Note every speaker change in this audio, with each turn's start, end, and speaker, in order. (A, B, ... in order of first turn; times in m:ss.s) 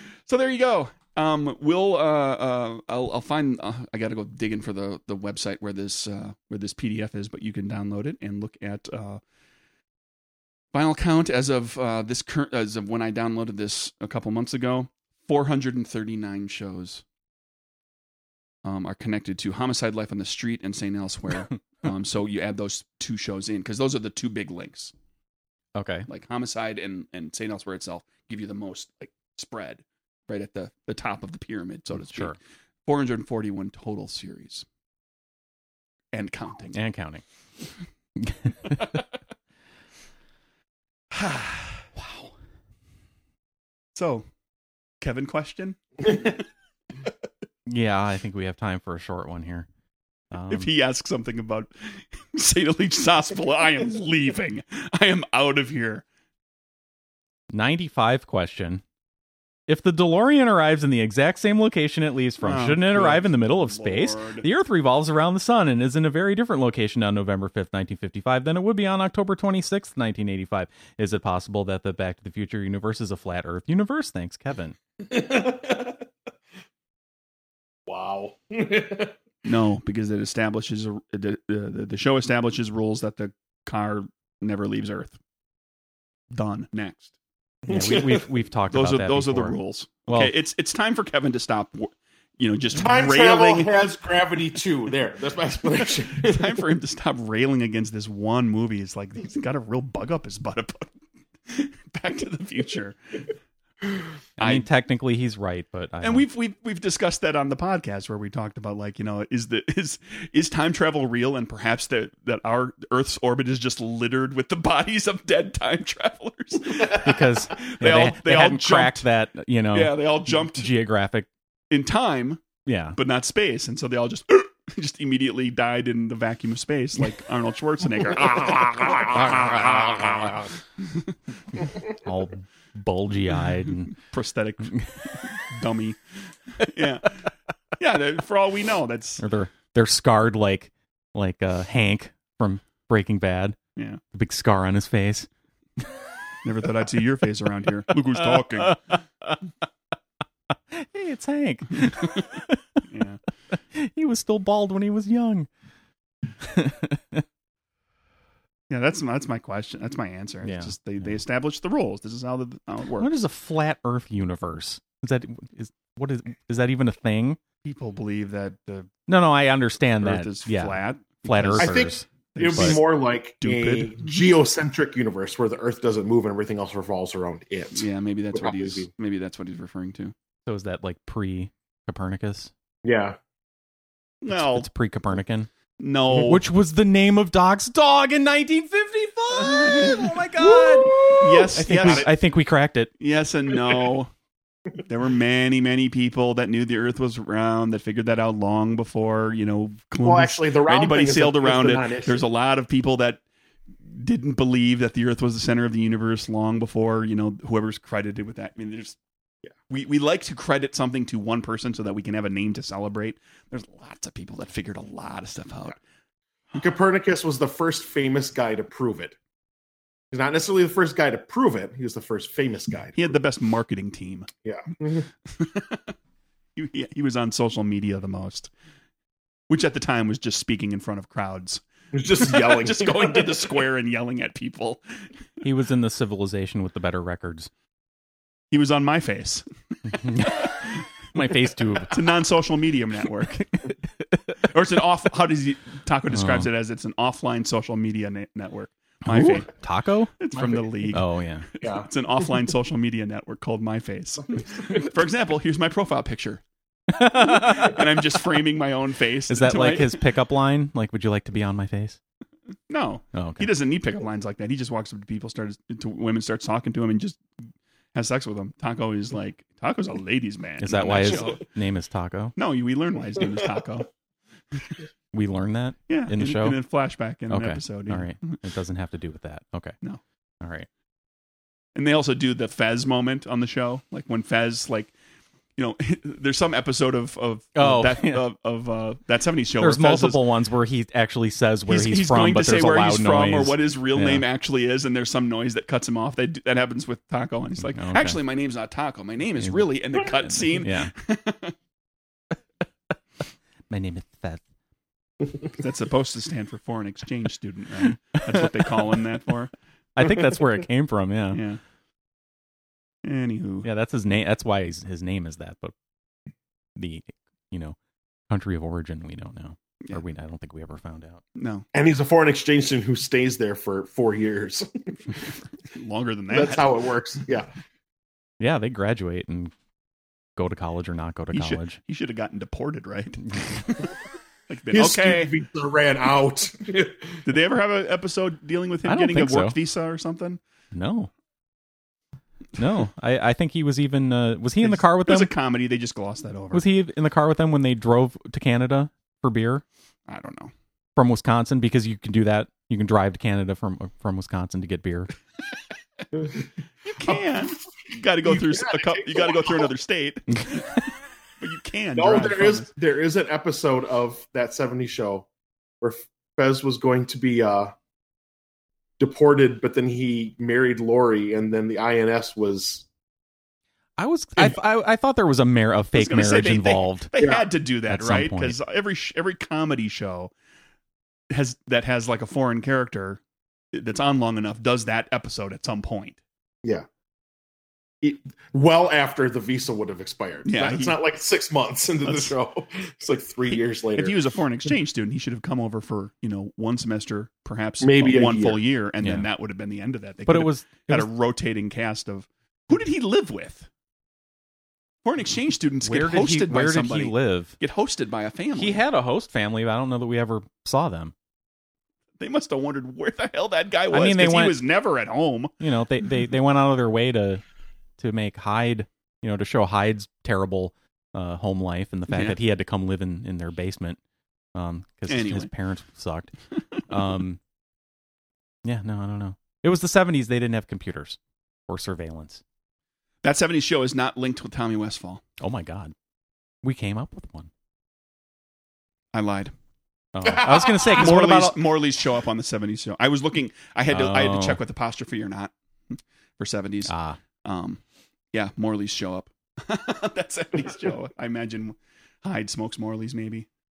0:00.3-0:09.2 A
0:10.7-0:17.0 A
0:18.6-0:24.9 A
0:25.7-0:26.1 B
0:26.1-0:32.3 A
0:32.0-0:32.4 B
0:32.8-0:34.6 A
0:36.1-0:36.8 A
0:36.7-0:37.2 B
0:38.2-0:39.0 B
0:41.1-0:41.9 A
0:42.0-0:42.3 B
0:43.9-0:44.2 A
0:45.0-0:46.4 A
0:47.6-0:49.7 B
0:50.3-0:50.7 B
0:50.5-0:56.0 A
0:57.5-0:58.8 B
0:59.7-1:14.8 B
1:02.4-1:04.5 A
1:15.0-1:16.0 C
1:17.8-1:19.2 C
1:19.4-1:25.2 A
1:26.3-1:27.1 A
1:27.6-1:28.3 C
1:27.7-1:30.3 B
1:28.7-1:33.7 A
1:32.7-1:36.6 C
1:36.1-1:40.9 A
1:41.5-1:43.0 A
1:44.4-1:44.7 A
1:44.4-1:46.2 B
1:46.0-1:59.0 A
1:56.8-2:01.3 B
1:59.7-2:00.7 A
2:01.7-2:02.4 A
2:02.6-2:03.0 B
2:02.9-2:11.1 A
2:09.0-2:10.3 B
2:11.6-2:14.0 B
2:13.9-2:16.0 A
2:16.5-2:17.3 A
2:17.8-2:19.2 A
2:19.2-2:23.6 B
2:23.8-2:24.0 A
2:24.1-2:25.3 B
2:26.4-2:28.8 A
2:28.2-2:29.4 B
2:30.7-2:32.8 B
2:32.9-2:33.2 A
2:33.7-2:35.5 B
2:36.4-2:37.2 B
2:38.7-2:43.1 A
2:40.4-2:41.2 B
2:43.0-2:47.4 B
2:47.6-2:48.9 A
2:49.1-2:52.8 B
2:50.0-2:52.8 A
2:51.6-2:58.9 C
2:53.4-2:54.1 A
2:57.7-3:00.1 A
3:00.4-3:02.5 B
3:02.8-3:03.2 C
3:04.2-3:04.7 A
3:04.3-3:05.5 B
3:05.8-3:06.4 A
3:06.1-3:12.9 B
3:09.3-3:10.1 A
3:10.4-3:12.1 C
3:10.9-3:12.1 A
3:13.0-3:14.1 A
3:14.8-3:23.2 A
3:20.0-3:22.2 C
3:23.9-3:29.0 A
3:29.7-3:35.8 A
3:36.5-3:39.2 C
3:40.1-3:43.1 C
3:42.9-3:44.3 A
3:44.4-3:45.1 C
3:45.3-3:45.9 A
3:46.6-3:48.5 A
3:49.5-3:51.6 A
3:51.9-3:53.5 C
3:52.2-3:54.8 A
3:55.4-3:57.5 B
3:58.5-3:59.4 A
3:59.9-4:02.0 B
4:01.9-4:03.6 A
4:03.6-4:04.3 B
4:04.4-4:09.5 A
4:06.1-4:06.5 B
4:09.0-4:11.5 B
4:10.2-4:16.4 A
4:11.6-4:11.9 C
4:16.9-4:17.9 B
4:17.0-4:20.0 A
4:19.3-4:22.0 B
4:22.7-4:27.2 A
4:23.1-4:23.5 B
4:27.9-4:31.4 A
4:30.6-4:32.3 B
4:32.4-4:33.9 A
4:35.1-4:36.6 B
4:35.9-4:38.4 A
4:37.3-4:39.8 B
4:40.4-4:40.7 B
4:41.7-4:44.9 A
4:45.6-4:50.2 A
4:47.6-4:48.2 B
4:49.6-4:54.2 B
4:51.7-5:01.5 A
4:57.6-4:58.2 B
4:59.4-5:00.9 B
5:03.7-5:04.4 B
5:05.4-5:09.5 A
5:08.2-5:08.7 B
5:10.0-5:11.4 B
5:11.3-5:11.6 A
5:13.0-5:13.7 A
5:13.6-5:15.7 B
5:16.8-5:17.7 B
5:18.3-5:21.2 B
5:21.3-5:21.6 A
5:21.7-5:25.2 C
5:25.7-5:26.7 A
5:26.3-5:27.5 C
5:28.4-5:29.5 B
5:30.4-5:31.8 B
5:31.3-5:33.9 A
5:34.5-5:35.3 A
5:34.7-5:37.2 C
5:37.2-5:40.4 A
5:38.8-5:39.6 B
5:40.7-5:41.1 B
5:42.6-5:45.3 B
5:44.6-5:46.6 A
5:46.5-5:49.6 B
5:50.1-5:50.5 A
5:51.0-5:55.1 B
5:56.8-6:00.7 A
5:58.2-5:59.7 C
6:00.3-6:00.8 B
6:01.4-6:02.7 A
6:02.0-6:05.3 C
6:05.8-6:07.7 C
6:09.0-6:12.8 C
6:14.0-6:17.1 B
6:15.9-6:20.3 A
6:17.2-6:17.4 C
6:17.9-6:18.6 B
6:21.3-6:23.2 A
6:23.7-6:26.2 A
6:28.0-6:34.2 C
6:30.4-6:31.0 A
6:32.0-6:32.3 A
6:33.9-6:43.7 A
6:37.8-6:38.6 C
6:39.0-6:39.3 B
6:40.3-6:41.1 B
6:45.0-6:48.8 A
6:45.8-6:47.6 B
6:48.5-6:51.1 B
6:52.2-6:55.5 A
6:53.9-6:54.6 B
6:55.6-6:57.4 B
6:58.0-7:04.0 B
7:02.1-7:02.4 A
7:04.5-7:07.4 B
7:05.1-7:05.5 A
7:08.6-7:12.4 B
7:13.2-7:15.2 A
7:15.4-7:15.9 B
7:16.6-7:17.5 B
7:19.1-7:19.5 A
7:20.1-7:21.6 B
7:20.2-7:21.0 C
7:20.8-7:27.8 A
7:23.9-7:24.6 B
7:26.9-7:27.2 B
7:28.3-7:33.5 A